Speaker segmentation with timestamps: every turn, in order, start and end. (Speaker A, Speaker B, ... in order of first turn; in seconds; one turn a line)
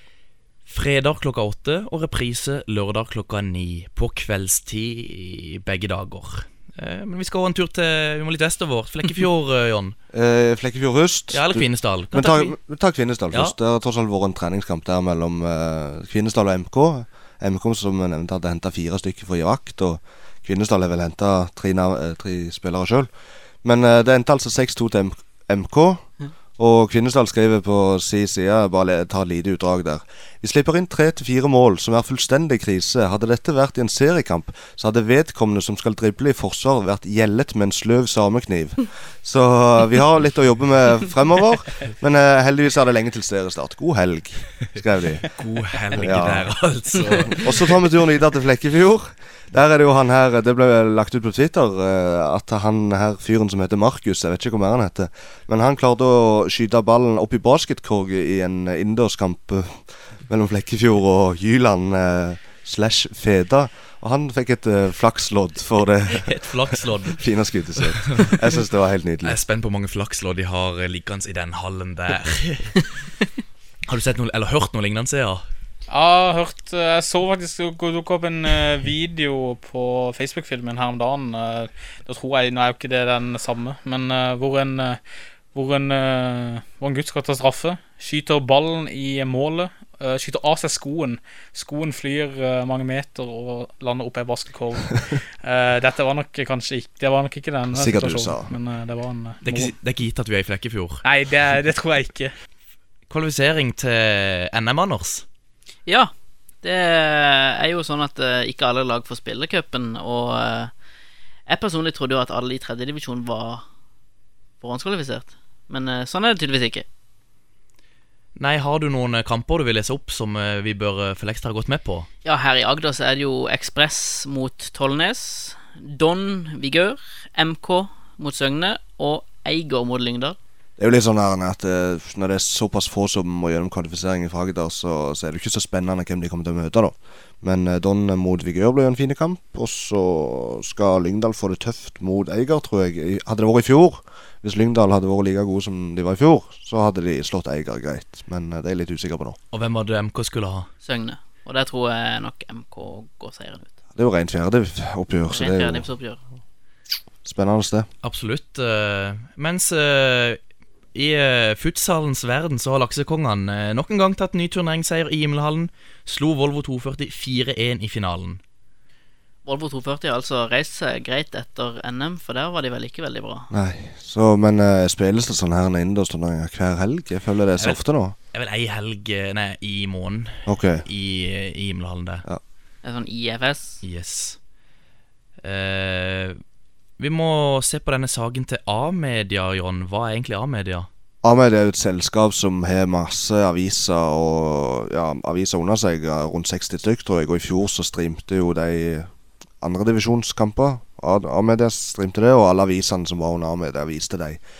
Speaker A: 0.7-9.9
Speaker B: 10.1-23.1
Speaker A: 11.3-12.5
Speaker B: 23.6-26.0
Speaker B: 26.6-45.3
Speaker A: 45.4-47.6
Speaker B: 45.9-46.5
Speaker B: 47.1-69.4
Speaker A: 66.1-67.2
Speaker A: 67.8-68.5
Speaker A: 69.2-72.8
Speaker A: 73.9-75.4
Speaker C: 75.9-85.0
Speaker C: 85.5-99.7
Speaker B: 97.7-98.5
Speaker A: 99.4-101.0
Speaker C: 101.0-102.3
Speaker A: 103.1-105.2
Speaker D: 105.8-106.1
Speaker D: 106.6-110.7
Speaker D: 111.5-113.6
Speaker D: 114.6-116.8
Speaker A: 118.3-122.1
Speaker D: 122.2-130.4
Speaker B: 130.8-149.4
Speaker A: 149.5-150.7
Speaker D: 150.8-153.7
Speaker B: 153.9-155.9
Speaker D: 155.3-156.2
Speaker B: 157.2-157.9
Speaker A: 158.0-160.4
Speaker A: 160.9-168.4
Speaker D: 169.4-173.5
Speaker B: 173.5-178.1
Speaker A: 178.3-182.2
Speaker B: 180.5-180.8
Speaker D: 182.8-183.8
Speaker A: 183.8-184.4
Speaker A: 185.4-186.4
Speaker A: 187.0-190.9
Speaker B: 191.2-199.1
Speaker B: 199.6-204.4